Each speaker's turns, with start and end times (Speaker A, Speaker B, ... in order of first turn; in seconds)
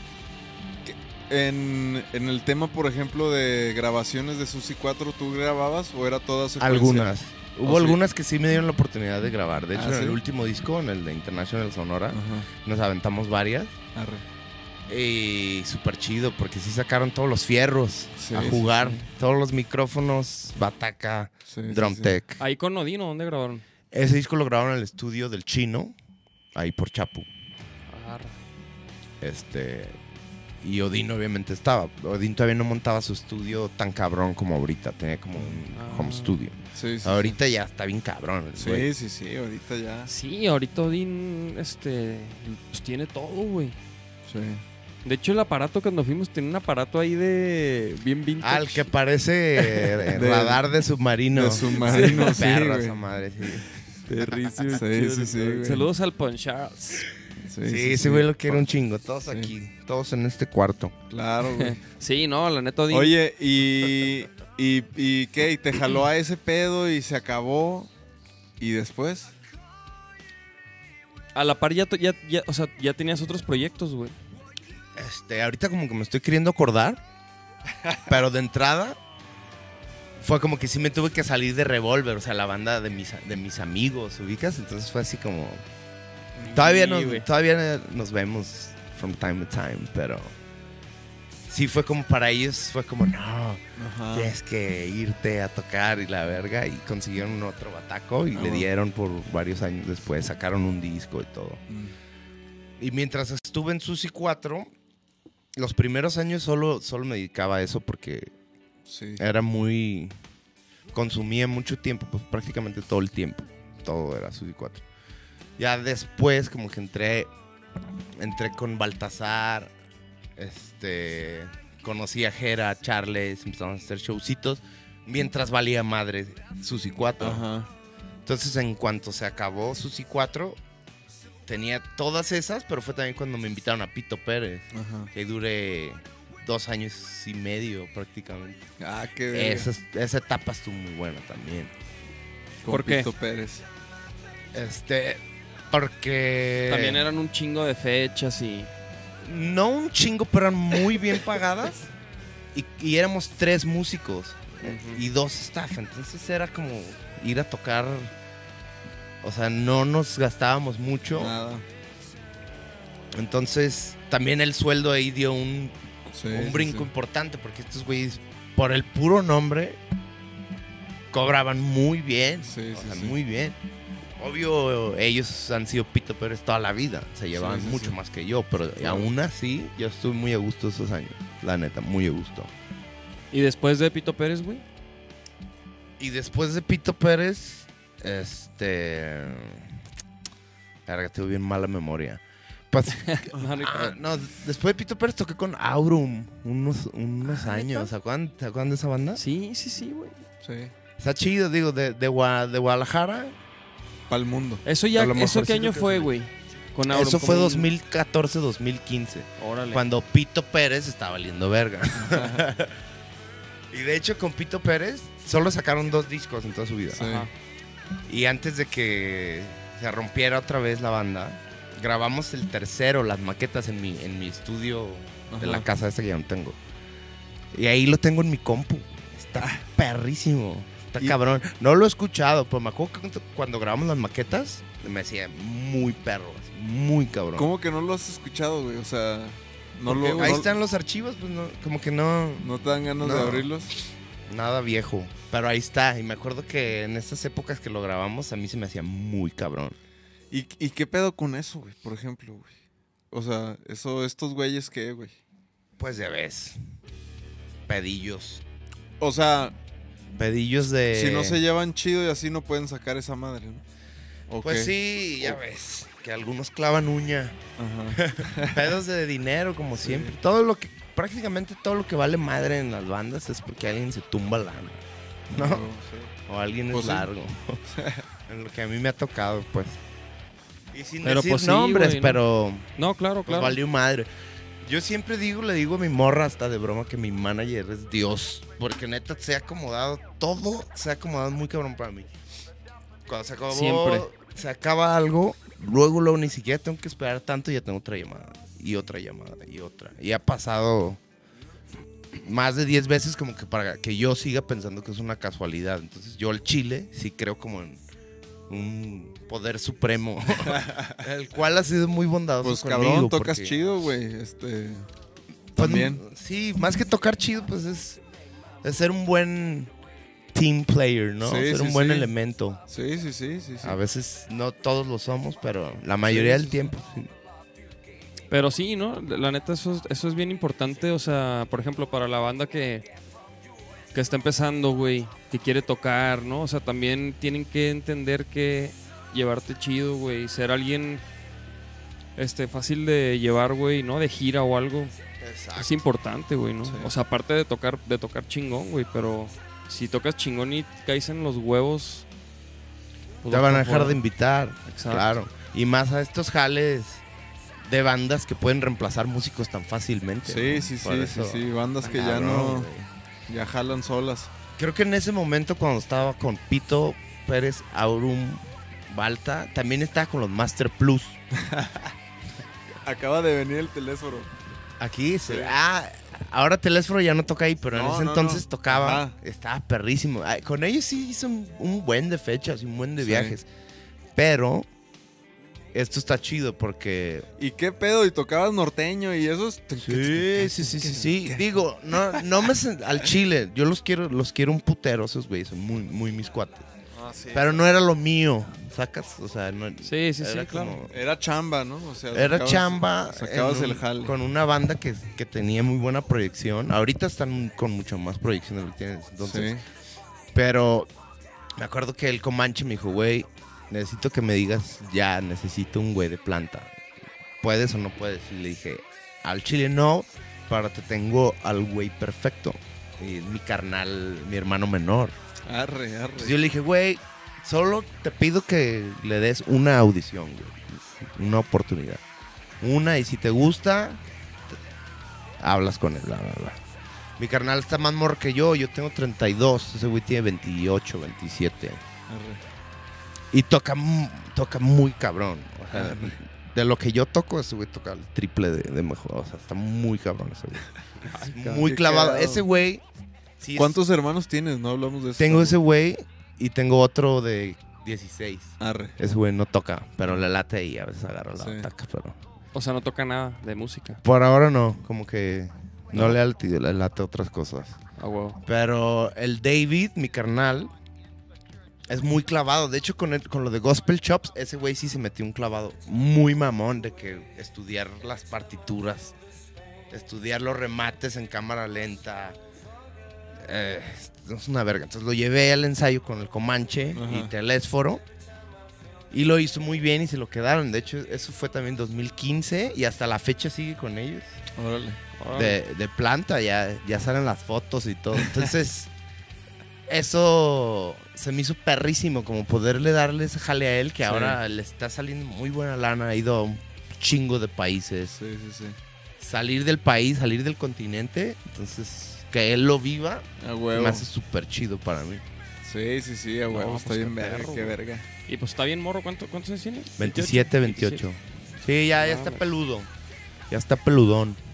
Speaker A: 0.8-8.0, 9.7-10.2, 12.1-12.5, 13.9-14.2, 18.2-18.7, 21.5-22.2, 36.8-37.4, 38.6-40.1, 44.3-44.6, 50.0-50.6, 51.3-53.0, 54.7-55.9, 57.5-58.6, 61.1-61.8, 62.9-67.9, 68.6-69.3, 86.4-87.2, 93.8-94.3, 98.3-98.7, 101.7-102.0, 108.9-109.2, 127.2-127.7, 134.7-135.1, 138.8-139.7, 142.6-143.6, 161.2-161.7, 166.1-166.9, 172.4-173.2, 177.3-178.0, 178.8-179.1, 200.4-200.7, 204.1-204.6, 211.9-212.5, 216.9-217.3, 225.3-225.7, 237.4-240.5, 242.4-243.7, 250.3-252.5, 253.1-255.2, 259.0-259.6, 260.9-263.6, 264.3-265.4, 267.6-268.7, 269.8-270.1, 275.3-276.1, 276.7-277.1, 277.7-278.1, 310.5-311.0, 312.4-314.9, 315.6-316.0, 321.2-322.1, 322.7-323.8, 326.1-326.6, 346.6-346.9, 360.2-362.7, 363.3-364.3, 371.4-371.9, 372.9-374.3, 375.3-375.6, 377.7-379.2, 383.0-383.4, 387.4-391.4, 396.9-397.6, 400.9-404.2, 409.2-409.6, 425.5-426.4, 442.1-442.4, 445.7-446.1, 451.6-452.5, 453.6-455.6, 458.6-459.0, 461.4-461.7, 486.9-487.3, 494.6-495.0, 504.1-504.4, 508.2-508.8, 513.4-514.0, 515.6-518.1
Speaker B: 6.6-13.8, 14.9-22.4, 23.9-25.9, 26.6-27.3, 29.2-30.0, 30.6-38.9, 48.4-53.7, 57.6-61.0, 75.0-77.0, 78.1-79.0, 80.2-85.6, 86.5-90.3, 91.5-101.6, 102.8-104.7, 105.6-108.3, 109.2-110.1, 110.9-114.8, 115.6-117.3, 118.2-119.7, 120.4-127.5, 128.2-130.6, 131.5-138.7, 139.3-141.7, 144.5-147.0, 149.2-151.9, 152.5-158.1, 159.2-161.3, 163.1-165.8, 166.3-169.8, 171.1-173.6, 174.2-182.5, 186.0-189.8, 190.9-199.2, 201.0-203.3, 204.9-206.1, 206.9-212.8, 213.7-217.1, 218.1-226.6, 227.5-237.5, 239.8-242.5, 243.0-243.5, 244.3-249.8, 255.8-256.6, 257.7-258.4, 260.1-261.4, 264.4-267.4, 267.9-275.7, 276.3-277.6, 278.3-279.8, 280.7-282.7, 283.3-284.1, 284.6-292.1, 293.1-301.0, 302.1-307.8, 308.5-313.6, 315.6-318.0, 318.6-319.7, 320.3-322.6, 323.6-327.1, 345.2-345.8, 353.3-357.0, 357.6-362.9, 364.6-371.2, 374.8-383.5, 384.1-384.7, 385.7-387.3, 389.8-396.7, 397.3-401.0, 402.1-409.5, 410.3-410.9, 411.6-416.8, 417.4-425.1, 426.2-432.0, 432.6-434.0, 435.4-436.6, 437.2-441.8, 443.3-452.8, 453.4-453.8, 455.2-462.2, 464.0-467.8, 468.4-470.7, 471.9-479.1, 479.9-482.4, 483.4-488.0, 489.1-494.4, 495.3-498.9, 499.9-508.2, 509.2-515.2, 520.0-522.9, 523.5-524.4
Speaker C: 22.4-23.6, 27.9-28.4, 35.7-36.4, 40.1-43.8, 45.0-48.9, 51.8-52.4, 54.1-57.1, 61.5-63.2, 71.3-74.2, 86.9-87.2, 142.7-143.1, 146.7-148.7, 154.6-155.0, 183.3-184.6, 193.0-194.0, 197.2-197.9, 199.2-200.2, 204.7-207.7, 209.4-209.8, 217.0-217.3, 281.0-282.2, 282.8-283.6, 293.5-294.1, 328.3-332.9, 333.9-341.0, 342.2-344.9, 345.6-352.1, 353.2-354.0, 354.7-355.1, 399.8-400.8, 451.1-451.7, 462.5-464.0, 468.0-468.4, 495.2-495.6, 516.5-517.8, 518.3-521.0, 522.0-522.5